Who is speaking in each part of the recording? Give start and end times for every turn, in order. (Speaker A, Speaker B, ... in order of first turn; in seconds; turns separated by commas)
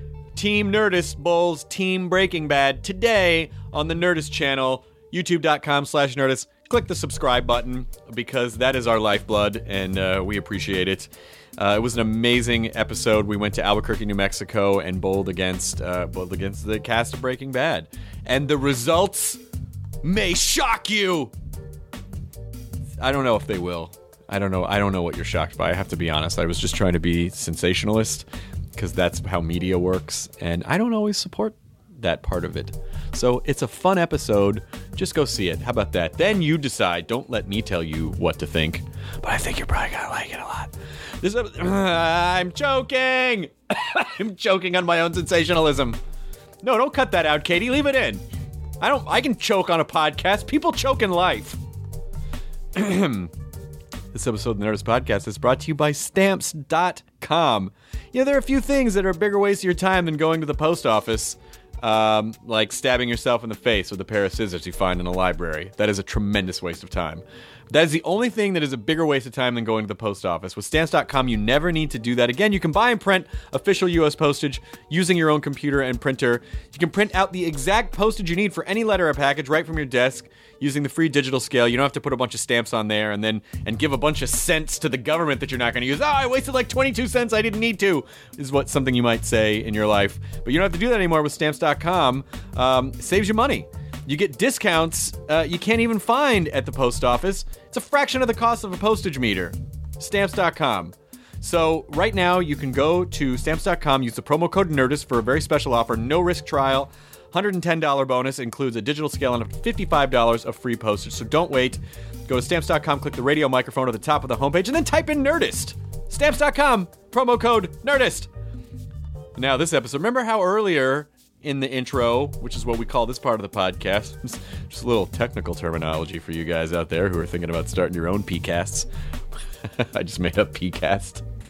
Speaker A: 0.3-19.4, Speaker A: 20.0-21.3, Speaker A: 23.0-46.0, Speaker A: 46.6-48.2, Speaker A: 48.8-51.6, Speaker A: 52.7-53.3, Speaker A: 54.1-118.3, Speaker A: 119.4-128.9, Speaker A: 129.7-131.2